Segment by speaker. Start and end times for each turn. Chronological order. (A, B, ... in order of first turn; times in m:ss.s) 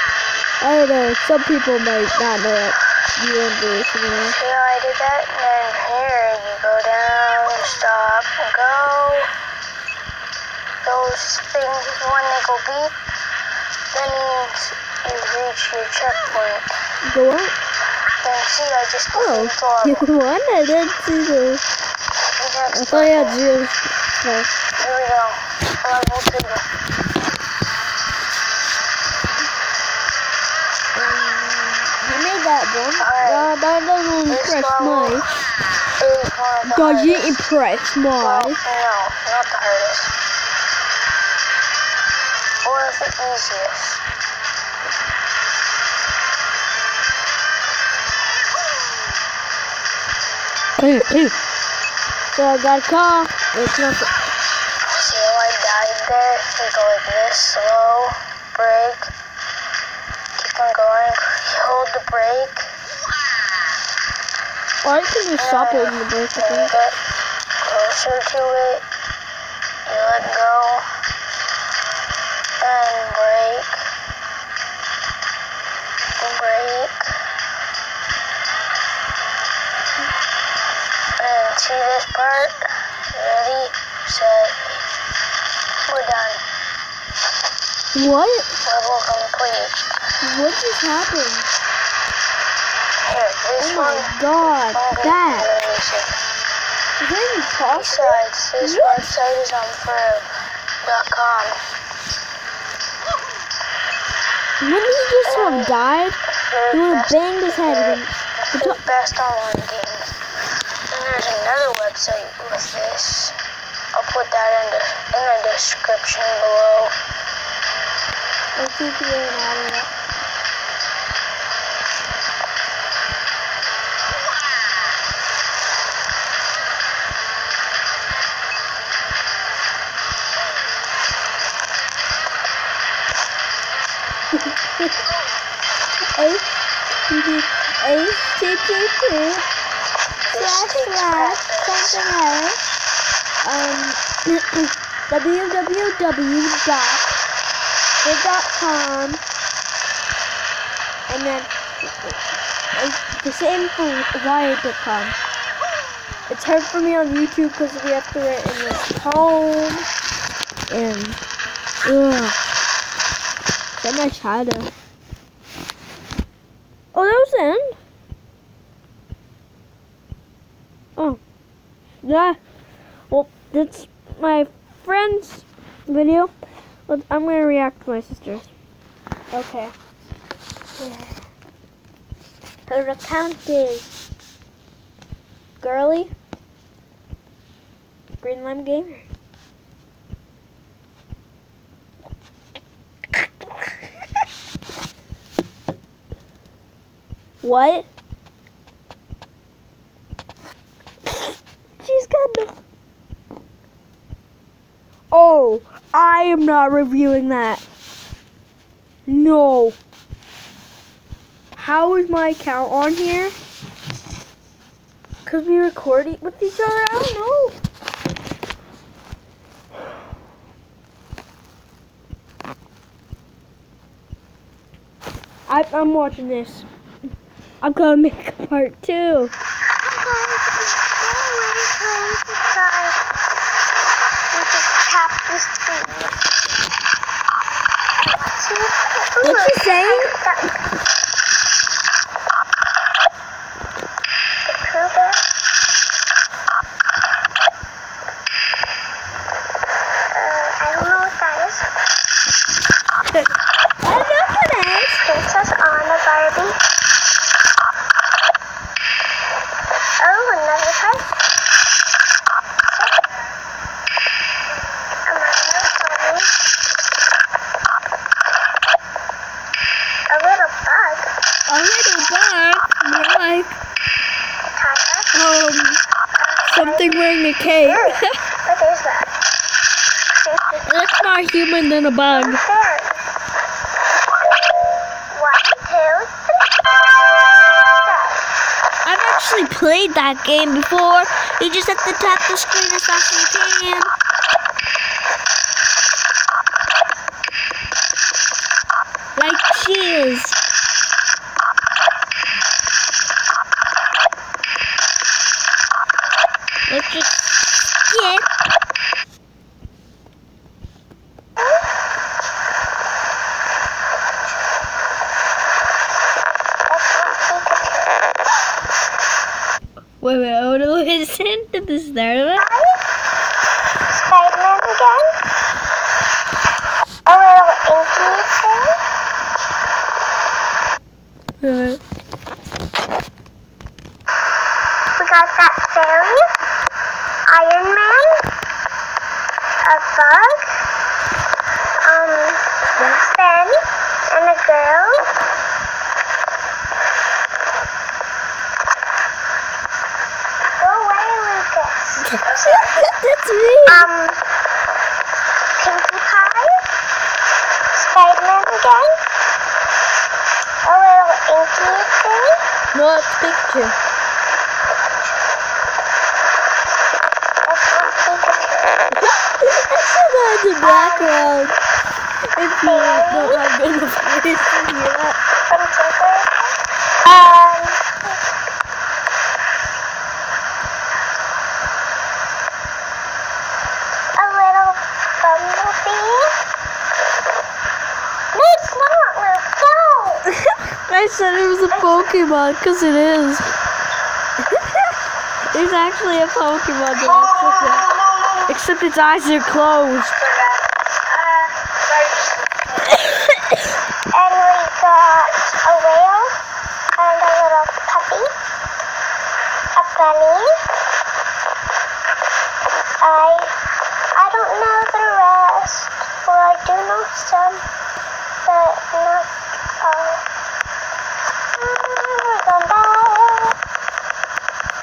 0:00.6-0:04.4 A
0:04.2-0:09.3 B
0:10.8-0:12.9 B
0:13.9-0:16.7 B
0:17.0-0:17.6 A
0:18.2-0:20.1 B
0:19.1-0:21.6 A
0:22.4-0:23.4 B
0:22.7-0:24.5 A
0:24.8-0:26.7 B
0:30.9-0:35.3 A
0:33.0-0:33.5 B
0:34.3-0:35.2 B
0:36.0-0:37.4 B
0:36.6-0:38.6 A
0:38.2-0:40.1 B
0:42.6-0:44.0 B
0:50.8-0:51.3 A
0:52.3-0:54.2 A
0:54.8-0:59.1 B
1:00.4-1:02.7 B
1:04.8-1:06.8 A
1:05.4-1:07.0 B
1:07.6-1:08.8 B
1:09.9-1:10.8 B
1:12.6-1:13.7 B
1:16.2-1:17.0 B
1:21.2-1:24.8 B
1:25.9-1:26.4 B
1:27.9-1:28.5 A
1:28.6-1:29.7 B
1:30.2-1:31.5 A
1:33.0-1:36.2 B
1:33.6-1:35.5 A
1:37.0-1:39.0 A
1:37.7-1:40.3 B
1:40.8-1:41.6 B
1:44.6-1:46.2 A
1:45.2-1:45.8 B
1:46.4-1:50.1 B
1:46.7-1:48.8 A
1:50.9-1:53.4 B
1:53.9-1:57.0 B
1:58.6-1:59.9 A
2:14.3-2:14.9 A
2:16.2-2:16.5 A
2:17.1-2:19.5 A
2:20.2-2:22.2 B
2:20.3-2:22.6 A
2:23.4-2:27.1 A
2:28.0-2:29.2 A
2:31.1-2:32.2 A
2:32.7-2:35.2 A
2:36.3-2:39.9 A
2:40.7-2:41.2 A
2:41.8-2:42.4 A
2:43.8-2:44.7 A
2:46.9-2:47.8 A
2:52.0-2:52.4 A
2:53.1-2:56.3 A
2:56.9-2:58.5 A
2:59.3-2:59.7 A
3:00.8-3:01.2 A
3:02.7-3:03.9 A
3:05.6-3:06.1 A
3:08.2-3:09.1 A
3:17.4-3:17.9 A
3:21.1-3:22.5 A
3:25.1-3:27.6 A
3:29.0-3:29.8 A
3:31.6-3:33.4 A
3:35.2-3:37.6 A
3:45.5-3:46.7 A
3:47.6-3:49.3 A
3:49.8-3:53.0 C
3:54.3-3:56.1 C
3:58.0-4:00.6 C
3:59.2-4:00.1 A
4:04.4-4:05.2 C
4:10.1-4:11.7 C
4:13.8-4:15.0 A
4:15.0-4:16.6 C
4:20.0-4:21.1 C
4:22.6-4:23.3 C
4:25.0-4:26.3 C
4:30.1-4:31.1 C
4:31.5-4:33.6 A
4:34.5-4:35.2 C
4:35.1-4:35.8 A
4:36.2-4:37.0 C
4:36.4-4:38.2 A
4:37.5-4:39.1 C
4:40.2-4:40.6 C
4:40.6-4:42.4 A
4:42.1-4:43.0 C
4:45.1-4:46.5 C
4:47.8-4:48.2 C
4:48.8-4:53.9 A
4:59.2-5:00.4 A
5:06.7-5:08.3 A
5:11.4-5:11.7 C
5:16.7-5:18.0 C
5:20.0-5:22.4 A
5:22.4-5:22.8 C
5:23.9-5:25.1 C
5:27.0-5:28.8 C
5:31.4-5:31.8 A
5:35.0-5:36.3 C
5:37.3-5:38.3 C
5:39.6-5:40.6 C
5:41.8-5:43.6 C
5:42.8-5:43.0 A
5:44.1-5:45.1 C
5:50.6-5:52.9 C
5:52.0-5:53.9 A
5:53.7-5:54.2 C
5:55.6-5:56.6 C
5:57.7-5:59.0 C
6:00.6-6:02.4 C
6:02.7-6:03.8 A
6:07.4-6:08.9 C
6:08.9-6:11.6 A
6:10.6-6:11.4 C
6:12.3-6:15.2 A
6:12.6-6:13.4 C
6:15.5-6:18.2 C
6:24.2-6:26.3 C
6:28.3-6:30.3 C
6:30.8-6:33.5 A
6:31.7-6:32.1 C
6:34.4-6:34.9 A
6:35.5-6:37.9 A
6:37.2-6:38.5 C
6:38.5-6:40.2 A
6:40.3-6:42.2 C
6:42.8-6:43.7 A
6:44.1-6:46.4 C
6:47.0-6:48.3 C
6:49.8-6:50.5 C
6:53.0-6:53.6 C
6:54.1-6:57.6 C
6:58.4-6:59.3 C
6:59.8-7:00.2 C
7:01.6-7:03.5 C